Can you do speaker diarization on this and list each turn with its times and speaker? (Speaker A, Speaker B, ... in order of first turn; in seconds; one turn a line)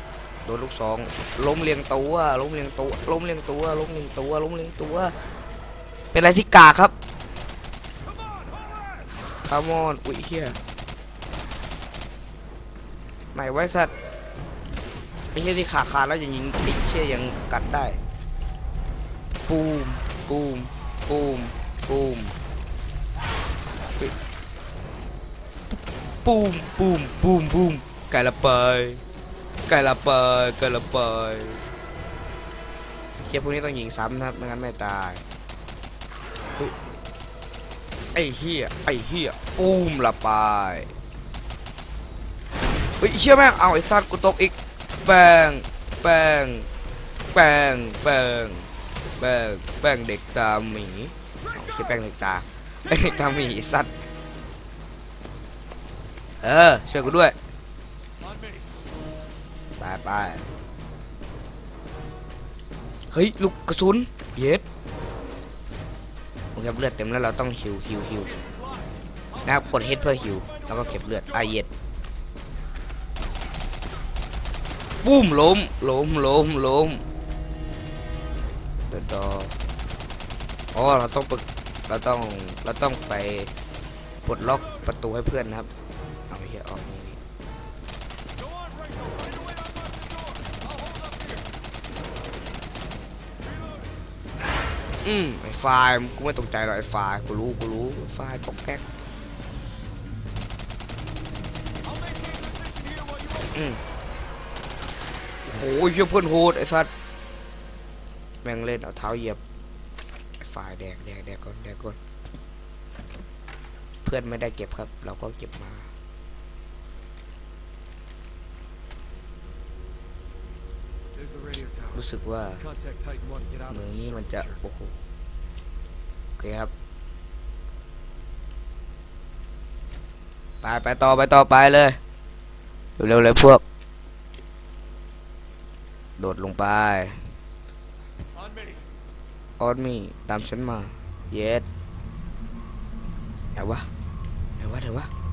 Speaker A: 0.4-5.1
Speaker A: 6.1-6.9
Speaker A: 9.4-10.6
Speaker A: 13.3-13.9
Speaker A: 15.3-18.0
Speaker A: 19.4-22.4
Speaker A: 25.7-29.0
Speaker A: 29.7-31.6
Speaker A: 33.2-35.2
Speaker A: 38.1-40.9
Speaker A: 43.0-46.7
Speaker A: 47.3-53.9
Speaker B: 52.8-53.5
Speaker A: 56.4-57.3
Speaker B: 58.2-58.7
Speaker A: 59.8-60.4
Speaker A: 63.1-64.6
Speaker A: 66.5-68.3
Speaker B: 68.2-71.5
Speaker A: 69.4-71.7
Speaker A: 75.0-77.0
Speaker A: 78.9-79.5
Speaker A: 80.7-83.5
Speaker A: 84.2-85.7
Speaker B: 84.5-84.8
Speaker A: 86.3-87.2
Speaker B: 88.4-91.5
Speaker B: 93.4-93.9
Speaker A: 95.0-98.8
Speaker B: 101.8-103.5
Speaker A: 103.5-103.8
Speaker A: 105.4-106.9
Speaker A: 108.4-109.4
Speaker A: 110.4-112.0
Speaker A: 114.0-115.9
Speaker B: 121.1-124.6
Speaker A: 121.9-122.6
Speaker A: 123.7-125.0
Speaker A: 126.4-126.7
Speaker A: 130.6-132.0
Speaker A: 133.0-133.6
Speaker A: 136.2-137.2
Speaker B: 138.3-138.8
Speaker A: 139.6-141.6
Speaker A: 143.5-143.9
Speaker A: 144.6-145.1